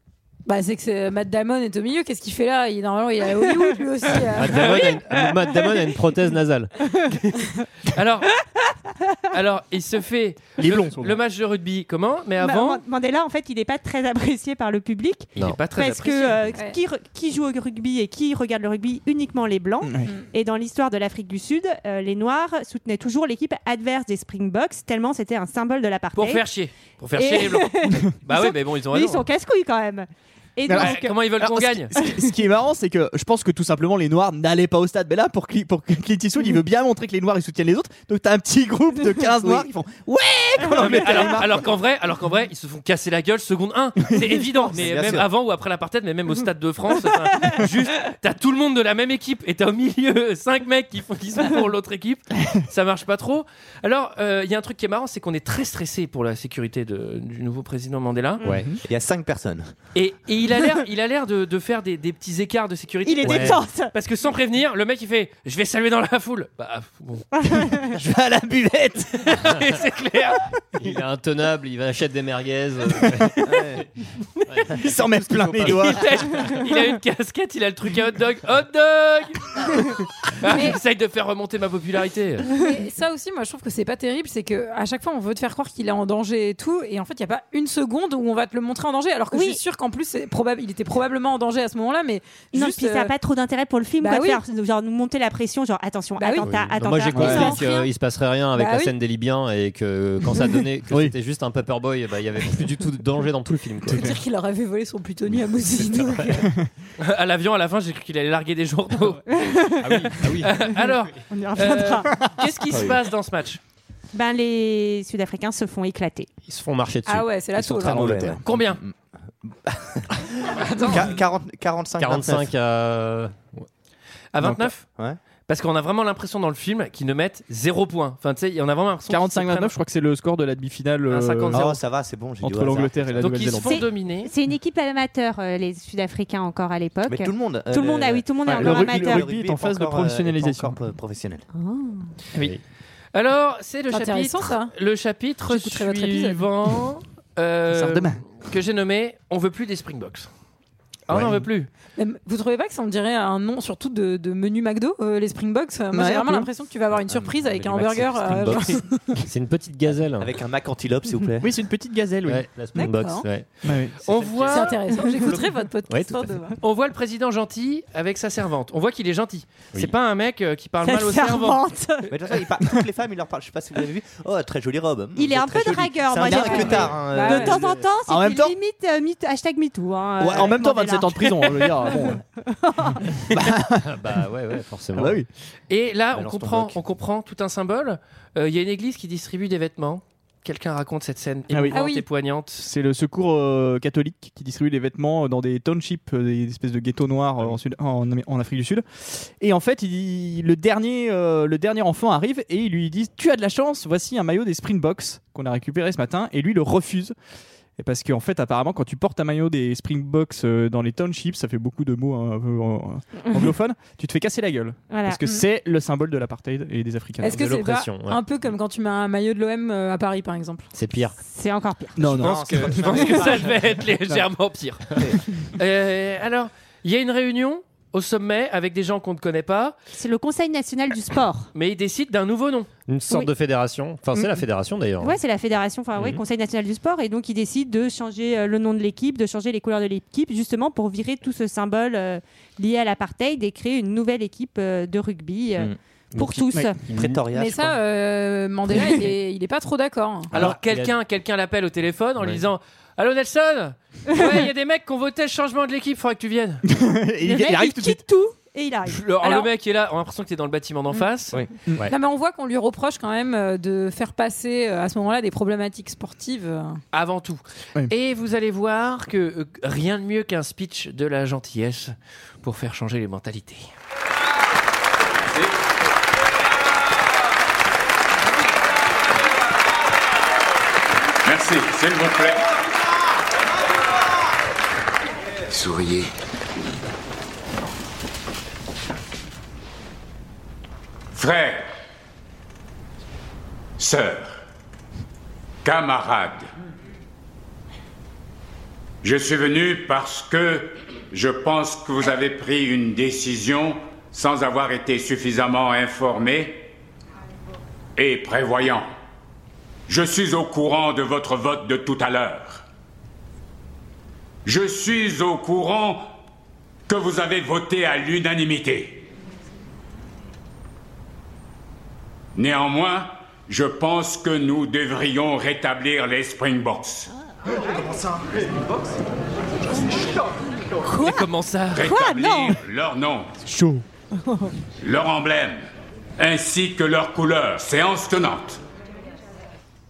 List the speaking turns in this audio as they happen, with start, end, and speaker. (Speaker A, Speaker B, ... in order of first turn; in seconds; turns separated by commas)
Speaker A: 0.4-4.8, Speaker B: 4.3-6.7, Speaker C: 7.1-8.3, Speaker C: 9.3-12.8, Speaker D: 10.6-11.2, Speaker E: 12.4-26.4, Speaker C: 15.4-16.4, Speaker D: 19.8-20.1, Speaker C: 26.1-29.2, Speaker E: 27.1-31.4, Speaker C: 30.7-31.9, Speaker D: 30.7-41.7, Speaker C: 40.7-58.4, Speaker F: 44.7-45.3, Speaker D: 58.5-58.8, Speaker F: 58.8-59.7, Speaker C: 59.9-67.3, Speaker E: 63.0-63.9, Speaker B: 63.2-63.6, Speaker E: 67.3-68.0, Speaker D: 67.8-69.4, Speaker C: 69.2-70.5, Speaker B: 70.8-73.7, Speaker F: 73.4-73.9, Speaker B: 74.5-76.4, Speaker D: 74.8-76.2, Speaker C: 75.6-79.8, Speaker C: 80.4-82.5, Speaker A: 80.5-80.8, Speaker A: 82.6-93.1, Speaker E: 89.3-89.6, Speaker E: 92.5-97.8, Speaker A: 94.0-94.4, Speaker A: 96.2-96.5, Speaker B: 96.4-104.2, Speaker D: 97.1-97.5, Speaker A: 97.3-97.8, Speaker A: 98.5-98.9, Speaker A: 103.9-106.5, Speaker B: 105.9-106.3, Speaker C: 107.0-109.7, Speaker E: 109.3-110.0, Speaker B: 109.8-110.6, Speaker C: 110.2-113.6, Speaker E: 111.3-112.2, Speaker E: 114.1-116.3, Speaker B: 116.5-118.3, Speaker A: 117.1-118.2, Speaker F: 117.6-122.5, Speaker D: 118.1-118.4, Speaker C: 118.4-118.8, Speaker C: 120.6-121.0, Speaker B: 122.0-123.7, Speaker C: 124.3-124.8, Speaker D: 124.4-124.7, Speaker C: 125.5-129.7, Speaker D: 129.1-131.8, Speaker C: 131.1-131.7, Speaker F: 131.5-133.3, Speaker D: 132.4-133.8, Speaker C: 133.2-134.3, Speaker E: 133.6-139.3, Speaker F: 137.1-141.4, Speaker D: 138.5-140.8, Speaker E: 141.5-142.1, Speaker C: 143.1-150.3, Speaker A: 143.9-144.7, Speaker A: 145.4-146.5, Speaker D: 147.7-148.2, Speaker C: 151.1-151.7, Speaker B: 151.1-151.4, Speaker A: 151.9-159.0, Speaker D: 155.9-156.5, Speaker F: 156.9-159.2, Speaker B: 159.2-160.3, Speaker F: 159.9-161.5, Speaker D: 161.4-162.5, Speaker B: 162.2-166.3, Speaker A: 162.7-163.3, Speaker D: 163.6-163.9, Speaker C: 164.0-164.8, Speaker A: 164.5-166.6, Speaker C: 166.6-171.6, Speaker E: 170.8-172.1, Speaker F: 172.1-177.7, Speaker E: 175.2-183.1, Speaker D: 176.2-176.7, Speaker A: 176.3-177.5, Speaker D: 178.1-178.5, Speaker D: 180.2-182.2, Speaker D: 183.3-184.2, Speaker B: 183.8-185.2, Speaker D: 184.9-185.3, Speaker C: 185.7-192.6, Speaker F: 186.1-186.8, Speaker D: 191.5-191.8, Speaker A: 191.7-192.0, Speaker D: 192.6-207.1, Speaker D: 207.8-217.4, Speaker E: 214.9-215.2, Speaker A: 217.2-220.7, Speaker B: 217.2-218.2, Speaker B: 220.7-221.1, Speaker E: 221.2-222.2, Speaker D: 221.9-223.4, Speaker F: 222.0-223.7, Speaker C: 222.2-229.8, Speaker E: 229.9-231.5, Speaker C: 231.5-232.7, Speaker B: 232.9-235.2, Speaker E: 235.0-246.8, Speaker B: 246.9-247.2, Speaker F: 246.9-247.8, Speaker A: 247.3-250.3, Speaker B: 250.3-250.9, Speaker C: 250.3-256.6, Speaker E: 254.1-254.4, Speaker D: 256.7-258.0, Speaker E: 257.2-259.0, Speaker C: 258.9-261.4, Speaker A: 259.2-259.5, Speaker A: 261.9-266.8, Speaker C: 266.9-273.7, Speaker G: 281.2-282.5, Speaker G: 291.1-291.7, Speaker G: 293.8-294.4, Speaker G: 295.6-296.5, Speaker G: 299.0-306.7, Speaker G: 307.9-308.9, Speaker G: 309.9-312.6, Speaker G: 314.4-316.1, Speaker G: 316.9-319.0, Speaker G: 322.4-327.1, Speaker E: 330.9-331.2, Speaker C: 330.9-331.9, Speaker G: 331.7-333.4, Speaker E: 331.8-332.6, Speaker D: 333.4-333.8, Speaker E: 334.2-334.5, Speaker G: 334.8-335.6, Speaker G: 336.2-338.6